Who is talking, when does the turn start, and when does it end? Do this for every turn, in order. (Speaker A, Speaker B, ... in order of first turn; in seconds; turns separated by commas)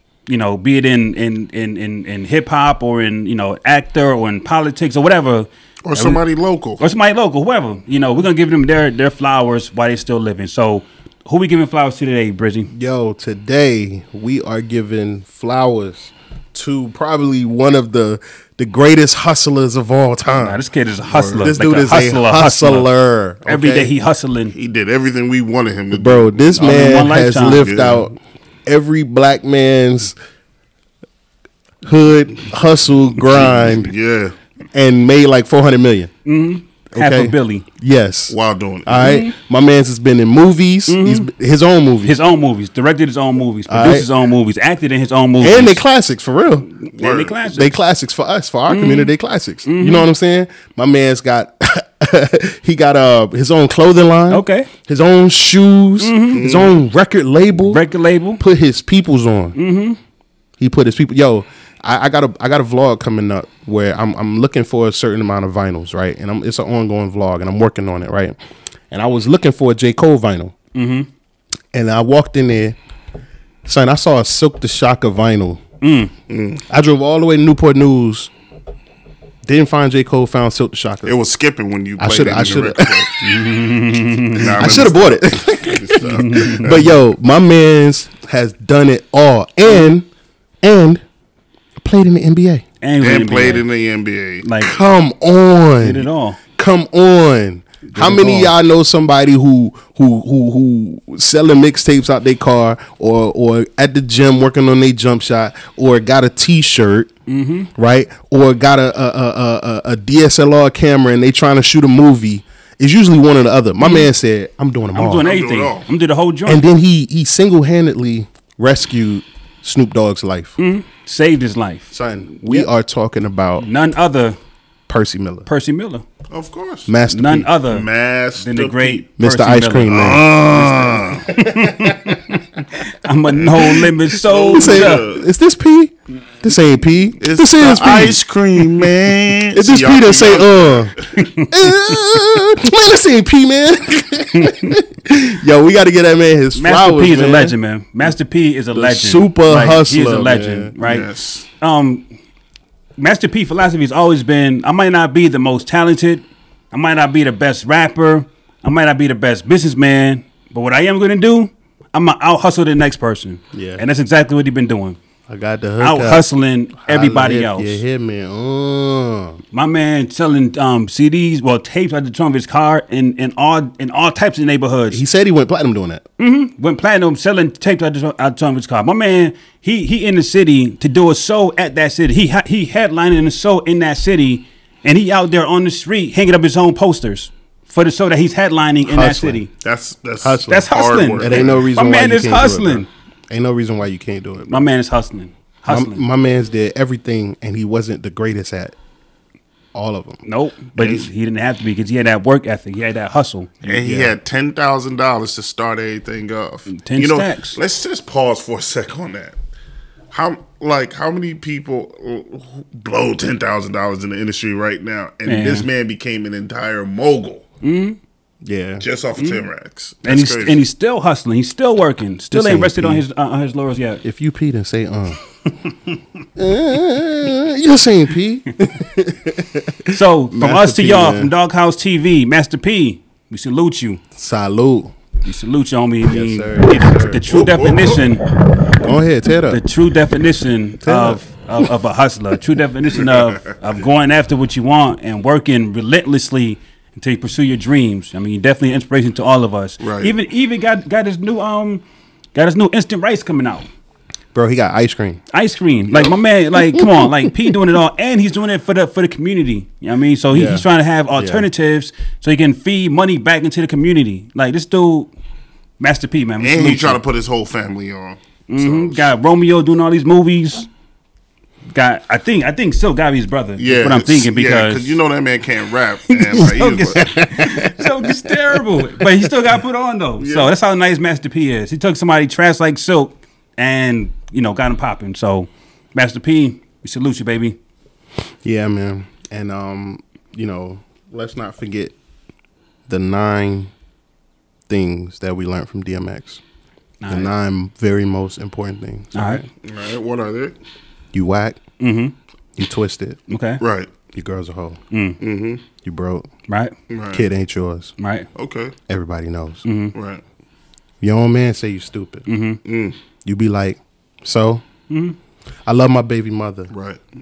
Speaker A: 0.3-6.2, Speaker B: 5.8-6.8, Speaker A: 6.8-12.7, Speaker C: 12.7-20.6, Speaker A: 20.3-22.9, Speaker B: 21.1-21.4, Speaker C: 21.2-23.9, Speaker A: 23.4-24.5, Speaker B: 24.5-26.5, Speaker C: 25.9-30.1, Speaker A: 26.6-27.7, Speaker B: 27.4-28.0, Speaker C: 31.8-33.9, Speaker B: 33.3-34.3, Speaker C: 34.7-36.1, Speaker A: 36.2-37.6, Speaker C: 36.9-42.1, Speaker B: 38.3-39.2, Speaker A: 39.0-39.3, Speaker A: 40.9-41.3, Speaker A: 42.0-45.8, Speaker C: 43.7-44.1, Speaker C: 45.4-46.7, Speaker A: 46.8-47.7, Speaker B: 46.9-47.4, Speaker C: 47.5-57.8, Speaker A: 48.7-49.1, Speaker A: 49.6-50.1, Speaker A: 54.3-54.7, Speaker A: 56.0-56.5, Speaker B: 56.3-56.7, Speaker A: 57.6-58.4, Speaker C: 58.4-59.5, Speaker A: 59.5-60.0, Speaker C: 60.6-68.3, Speaker C: 68.9-70.5, Speaker A: 70.7-71.1, Speaker C: 71.7-72.8, Speaker C: 73.6-75.6, Speaker A: 75.8-76.1, Speaker B: 76.3-76.6, Speaker C: 76.7-78.3, Speaker C: 79.4-81.2, Speaker B: 81.0-83.1, Speaker C: 82.0-83.0, Speaker A: 83.2-84.7, Speaker B: 84.3-86.9, Speaker C: 84.4-90.1, Speaker A: 86.0-86.7, Speaker C: 90.6-91.0, Speaker C: 91.8-92.6, Speaker A: 92.8-93.6, Speaker B: 93.0-94.5, Speaker A: 94.4-94.7, Speaker C: 94.6-107.1, Speaker A: 95.8-96.4, Speaker A: 97.9-98.5, Speaker A: 107.3-107.7, Speaker C: 107.8-115.3, Speaker A: 113.8-114.1, Speaker A: 114.9-116.6, Speaker B: 115.2-115.9, Speaker C: 116.5-120.6, Speaker A: 120.6-122.7, Speaker C: 121.9-123.7, Speaker A: 123.6-124.4, Speaker C: 124.9-125.5, Speaker A: 125.5-126.0, Speaker B: 126.3-126.9, Speaker C: 126.9-127.5, Speaker A: 127.1-127.9, Speaker B: 127.7-129.0, Speaker A: 128.4-135.1, Speaker C: 129.2-130.3, Speaker B: 129.9-131.3, Speaker C: 131.3-132.2, Speaker B: 133.4-135.3, Speaker C: 134.5-147.5, Speaker B: 137.2-141.1, Speaker A: 141.1-142.2, Speaker A: 144.3-144.7, Speaker A: 146.5-151.1, Speaker C: 148.7-150.7, Speaker B: 150.8-151.5, Speaker A: 151.6-152.1, Speaker A: 153.0-165.0, Speaker C: 163.5-163.8, Speaker C: 165.3-166.3, Speaker A: 165.8-167.8, Speaker C: 166.8-169.4, Speaker A: 169.5-175.0, Speaker C: 174.9-176.0, Speaker A: 176.2-189.5, Speaker C: 188.8-189.4, Speaker B: 189.6-191.6, Speaker C: 190.2-194.6, Speaker A: 190.5-192.9, Speaker A: 194.5-196.0, Speaker C: 195.7-198.8, Speaker C: 199.7-200.2, Speaker A: 200.2-203.6, Speaker B: 200.8-201.1, Speaker B: 203.6-209.3, Speaker C: 203.7-204.1, Speaker A: 206.7-207.6, Speaker B: 210.1-217.4, Speaker A: 215.2-215.7, Speaker A: 217.6-218.0, Speaker C: 218.4-218.8, Speaker B: 218.8-220.6, Speaker A: 219.2-219.4, Speaker A: 220.0-224.0, Speaker C: 222.3-223.0, Speaker C: 224.0-225.2, Speaker C: 226.3-231.3, Speaker A: 229.9-234.0, Speaker C: 234.1-234.9, Speaker A: 235.2-238.3, Speaker C: 236.1-237.2, Speaker B: 237.3-238.1, Speaker C: 238.8-239.6, Speaker A: 239.5-251.8, Speaker C: 240.8-241.2, Speaker B: 249.8-250.1, Speaker A: 252.3-253.7, Speaker C: 254.3-255.2, Speaker A: 255.3-265.1, Speaker C: 256.7-257.1, Speaker C: 260.3-261.5, Speaker A: 265.8-267.0, Speaker B: 266.4-269.1, Speaker A: 268.5-270.7, Speaker A: 271.7-274.9, Speaker B: 273.6-277.3, Speaker A: 276.1-287.6, Speaker C: 276.9-278.3, Speaker B: 280.2-280.5, Speaker C: 288.4-291.9, Speaker C: 292.9-293.7, Speaker C: 294.7-296.4, Speaker A: 297.0-297.3, Speaker C: 297.1-299.4, Speaker A: 299.1-299.4, Speaker B: 299.6-300.5, Speaker C: 301.1-301.6, Speaker A: 301.8-302.1, Speaker C: 302.6-303.2, Speaker A: 303.3-303.6, Speaker B: 303.6-303.9, Speaker C: 304.1-304.8, Speaker A: 304.9-305.2, Speaker B: 305.2-305.6, Speaker C: 305.8-306.3, Speaker A: 306.5-306.7, Speaker B: 306.9-307.2, Speaker C: 307.1-307.9, Speaker A: 308.0-308.3, Speaker B: 308.3-308.7, Speaker C: 308.9-309.6, Speaker A: 309.6-309.9, Speaker B: 309.9-310.2, Speaker C: 311.0-312.2, Speaker A: 312.3-312.6, Speaker B: 312.6-313.0, Speaker C: 313.2-314.6, Speaker A: 314.9-315.1, Speaker C: 315.6-316.7, Speaker B: 316.7-317.0